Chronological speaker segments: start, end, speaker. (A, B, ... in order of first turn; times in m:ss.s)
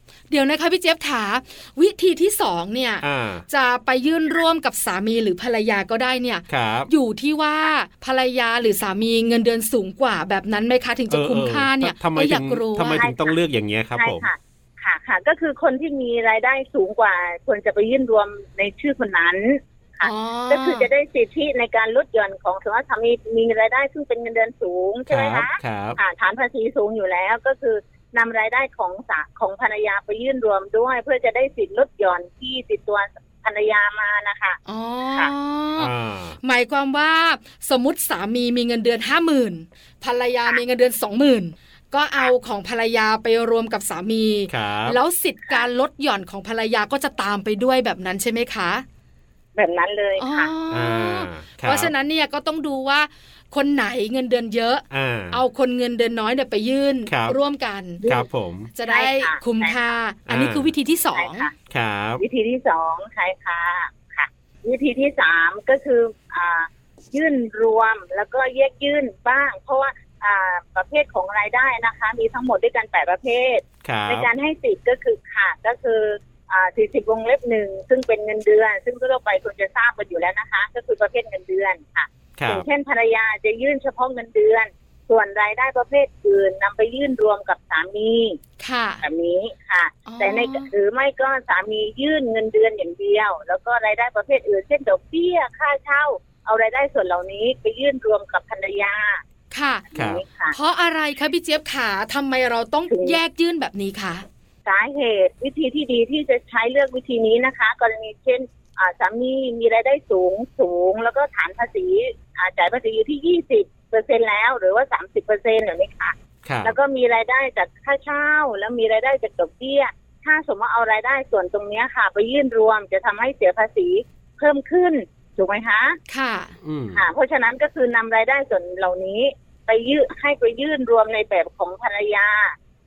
0:00.3-0:13.1 A
0:03.0-0:03.4 B
0:06.5-0:06.9 B
0:11.1-0:14.3 B
0:12.9-0:13.4 C
0:13.9-0:34.6 C
0:20.0-0:20.9 A
0:25.1-0:26.0 B
0:34.7-0:48.8 A
0:35.8-0:36.4 B
0:44.5-0:45.0 B
0:49.6-0:50.5 C
0:50.2-0:58.0 A
0:50.7-0:51.9 B
0:54.9-0:55.4 B
0:57.1-0:57.4 B
0:58.0-0:58.7 B
0:58.7-1:01.5 A
0:58.9-0:59.8 C
1:00.3-1:00.7 B
1:01.1-1:01.5 C
1:01.7-1:02.2 B
1:02.2-1:28.4 C
1:13.8-1:14.3 B
1:22.4-1:22.7 B
1:28.6-1:29.0 A
1:29.0-1:39.2 C
1:30.0-1:30.7 A
1:39.5-1:39.8 A
1:39.9-1:40.6 C
1:39.9-1:40.2 B
1:40.5-1:44.2 A
1:42.9-1:43.2 C
1:44.6-2:06.0 C
1:56.4-1:56.8 B
2:06.1-2:06.5 A
2:06.6-2:07.0 B
2:06.9-2:12.6 C